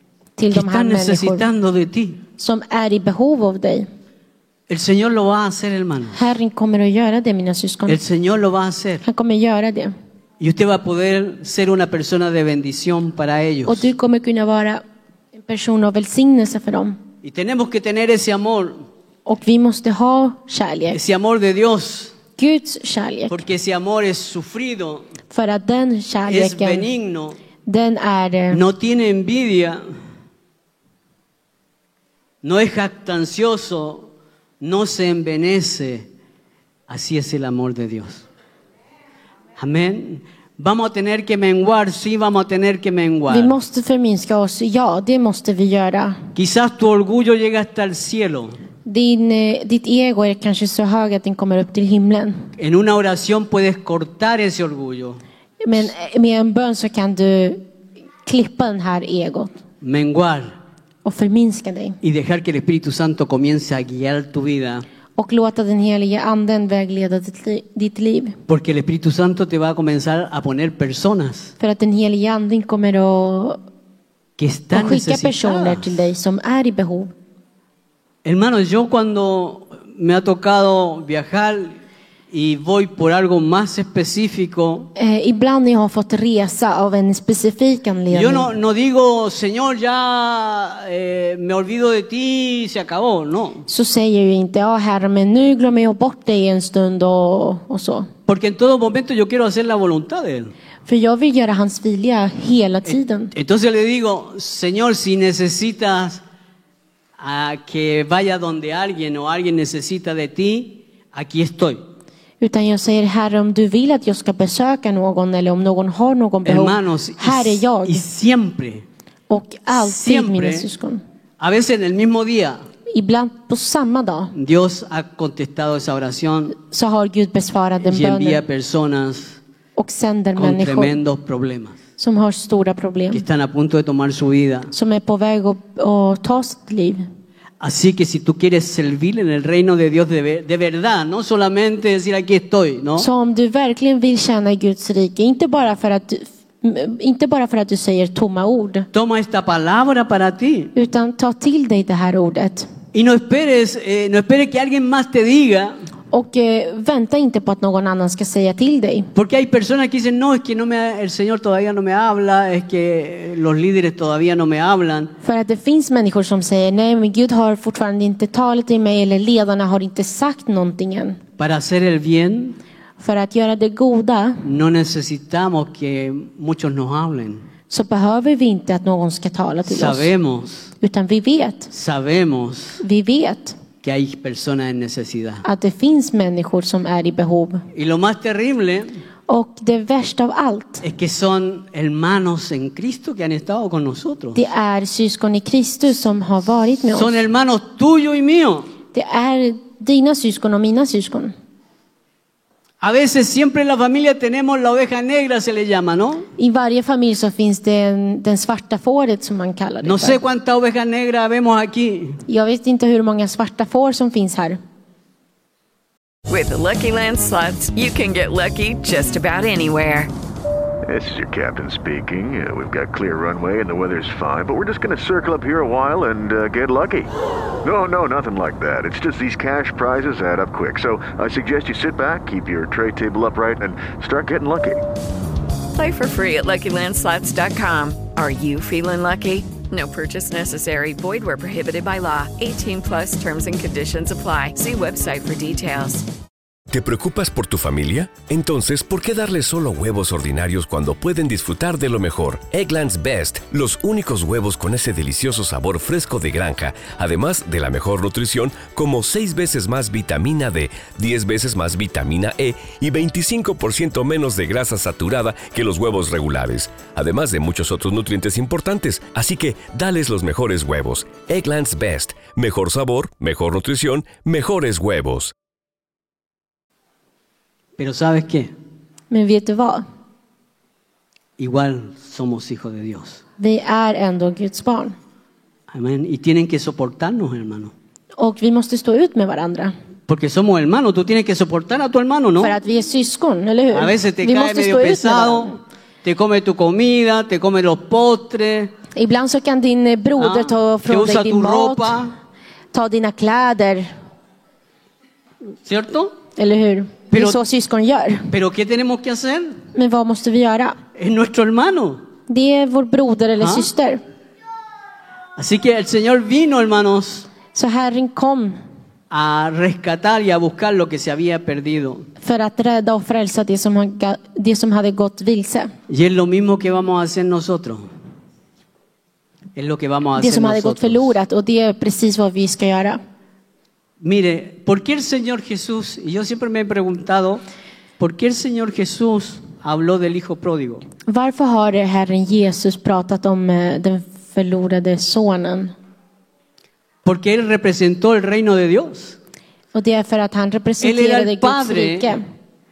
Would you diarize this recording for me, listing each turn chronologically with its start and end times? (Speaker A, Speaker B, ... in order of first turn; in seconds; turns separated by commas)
Speaker A: 0.4-1.5, Speaker B: 0.5-2.2, Speaker A: 2.4-3.9, Speaker B: 4.7-6.2, Speaker A: 6.1-8.0, Speaker B: 7.9-9.0, Speaker A: 9.0-9.9, Speaker B: 10.4-13.9, Speaker A: 13.7-14.8, Speaker A: 15.4-17.0, Speaker B: 17.2-18.9, Speaker A: 19.3-21.0, Speaker B: 20.9-22.1, Speaker A: 22.4-23.4, Speaker B: 23.3-25.1, Speaker A: 25.3-26.9, Speaker B: 26.3-27.4, Speaker A: 27.7-28.6, Speaker B: 28.5-29.8, Speaker B: 32.4-34.1, Speaker B: 34.6-36.1, Speaker B: 36.9-38.2, Speaker B: 39.6-43.6, Speaker A: 43.3-46.2, Speaker B: 46.4-48.6, Speaker A: 48.9-52.5, Speaker B: 52.6-55.2, Speaker A: 55.6-57.6, Speaker A: 58.2-59.5, Speaker B: 59.8-60.6, Speaker A: 61.0-62.0, Speaker B: 62.0-64.9, Speaker A: 65.2-68.4, Speaker B: 68.5-71.5, Speaker A: 71.6-73.6, Speaker B: 74.4-76.0, Speaker A: 74.7-77.1, Speaker B: 78.2-81.8, Speaker B: 82.3-84.9, Speaker A: 85.0-88.5, Speaker B: 88.1-93.7, Speaker A: 93.7-98.1, Speaker B: 98.3-100.5, Speaker A: 100.9-103.3, Speaker B: 102.9-106.2, Speaker B: 107.2-111.8, Speaker A: 112.4-118.0, Speaker B: 116.4-118.9, Speaker A: 119.3-121.0, Speaker B: 119.7-120.7, Speaker B: 121.4-122.6, Speaker A: 122.9-124.3, Speaker B: 124.3-126.6, Speaker A: 126.7-128.4, Speaker B: 127.8-129.4, Speaker A: 129.8-131.0, Speaker B: 130.4-131.8, Speaker A: 132.0-133.2, Speaker B: 133.1-134.7, Speaker A: 134.7-137.1, Speaker B: 137.6-143.1, Speaker A: 143.0-148.9, Speaker B: 148.9-150.7, Speaker A: 150.8-152.7, Speaker B: 152.9-155.8, Speaker A: 156.1-159.1, Speaker B: 159.2-165.1, Speaker A: 165.2-171.2, Speaker B: 171.4-172.6, Speaker A: 173.0-174.4, Speaker B: 174.4-177.4, Speaker A: 177.7-180.1, Speaker B: 179.7-180.7, Speaker A: 180.8-181.7, Speaker B: 181.7-182.8, Speaker A: 182.8-183.6, Speaker B: 183.8-185.4, Speaker A: 185.4-187.6, Speaker B: 187.7-189.0, Speaker A: 189.3-190.8, Speaker B: 190.8-194.4, Speaker A: 194.3-197.2, Speaker B: 196.9-198.7, Speaker A: 198.9-201.3, Speaker B: 202.8-206.3, Speaker A: 206.4-210.2, Speaker B: 209.8-212.2, Speaker A: 212.3-214.6, Speaker C: 216.3-220.1, Speaker D: 220.9-227.1, Speaker D: 227.6-234.8, Speaker C: 235.7-246.1, Speaker E: 246.7-275.3, Speaker B: 277.8-278.5, Speaker A: 279.1-279.8, Speaker B: 281.4-283.2, Speaker A: 283.4-285.0, Speaker B: 285.7-287.7, Speaker A: 288.2-289.7, Speaker B: 290.1-292.6, Speaker A: 292.4-295.6, Speaker B: 293.7-298.7, Speaker A: 298.9-302.0, Speaker B: 300.2-302.1, Speaker A: 302.7-303.9, Speaker B: 305.6-306.1, Speaker A: 306.4-308.3, Speaker B: 307.1-307.4, Speaker B: 308.3-309.6, Speaker A: 309.7-310.8, Speaker B: 310.9-312.0, Speaker A: 312.3-314.0, Speaker B: 313.4-313.7, Speaker B: 315.4-317.3, Speaker A: 317.5-318.6, Speaker B: 319.1-322.1, Speaker A: 322.2-325.7, Speaker B: 325.9-327.9, Speaker B: 329.6-331.1, Speaker A: 330.2-333.0, Speaker B: 334.0-337.4, Speaker B: 338.0-340.8, Speaker A: 341.1-345.7, Speaker B: 347.1-349.2, Speaker A: 349.7-352.2, Speaker B: 350.8-352.2